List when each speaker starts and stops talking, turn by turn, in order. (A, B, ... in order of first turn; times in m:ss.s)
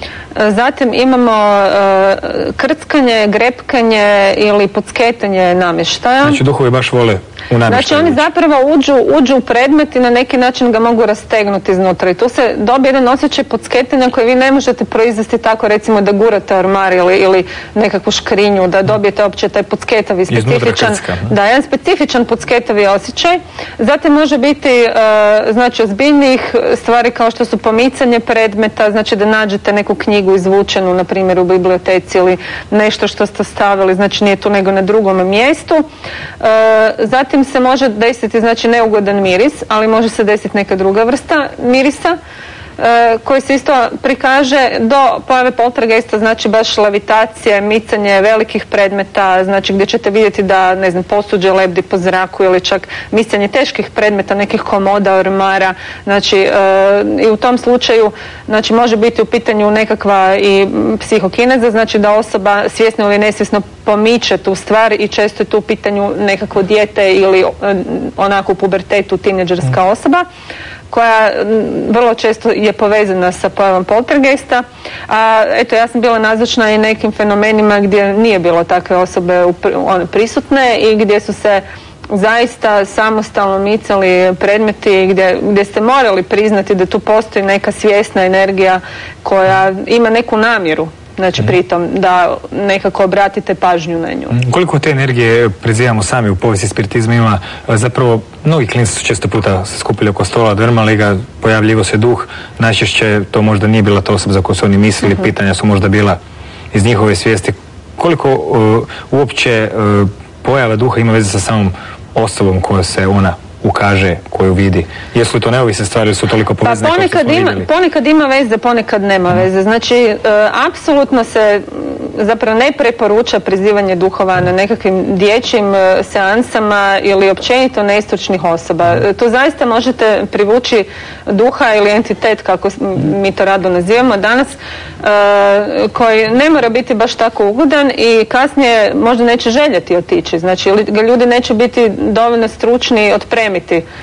0:00.4-0:06.4 A
0:06.2-0:08.2 B
0:07.7-0:35.8 A
0:20.3-0:21.3 B
0:36.4-0:42.2 A
0:42.8-1:10.2 A
1:10.9-1:34.4 A
1:34.4-1:46.2 B
1:46.7-1:57.7 B
1:56.6-2:23.8 A